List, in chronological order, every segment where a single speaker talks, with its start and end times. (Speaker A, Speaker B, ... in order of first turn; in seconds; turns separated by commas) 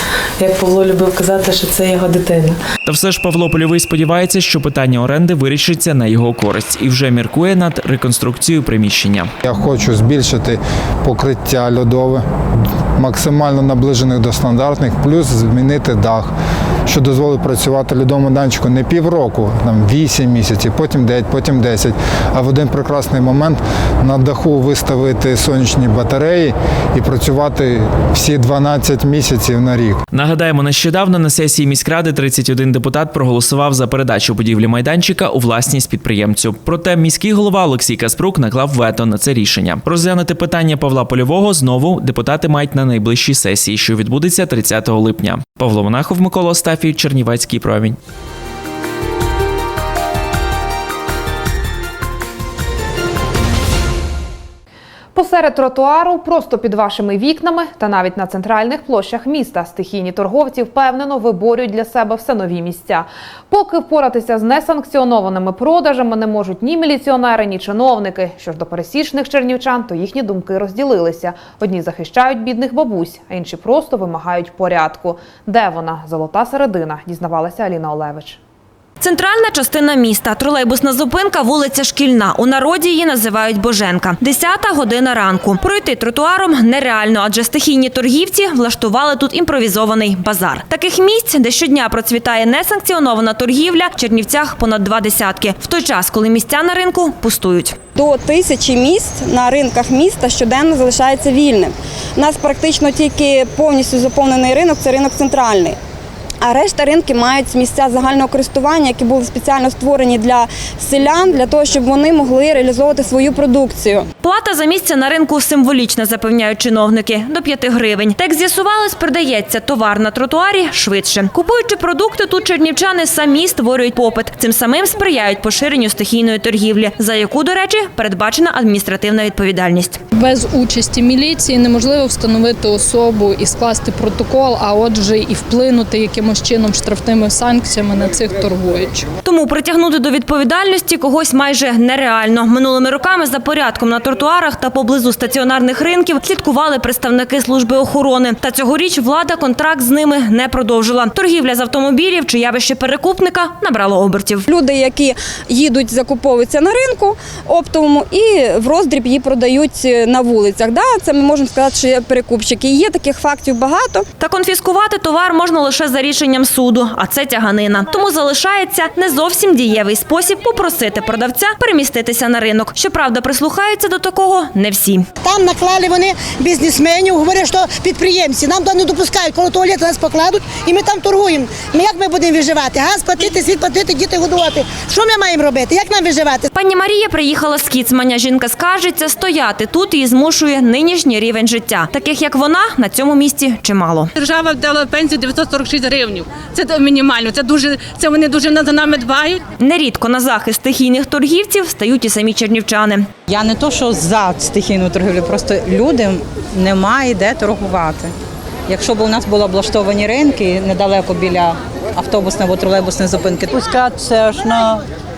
Speaker A: 0.4-2.6, Speaker B: 2.9-9.3, Speaker C: 9.4-12.3, Speaker C: 12.9-16.3, Speaker C: 16.9-30.0, Speaker B: 30.1-48.0, Speaker D: 55.1-78.4, Speaker E: 79.0-97.8, Speaker F: 97.9-105.8, Speaker F: 106.4-114.1, Speaker E: 114.2-130.0, Speaker G: 130.1-139.1, Speaker E: 139.2-154.4, Speaker F: 154.5-164.1, Speaker E: 164.2-175.1, Speaker H: 175.2-186.5, Speaker E: 186.5-194.1, Speaker I: 194.2-199.4, Speaker E: 199.6-203.1, Speaker J: 203.3-208.1, Speaker J: 208.7-214.8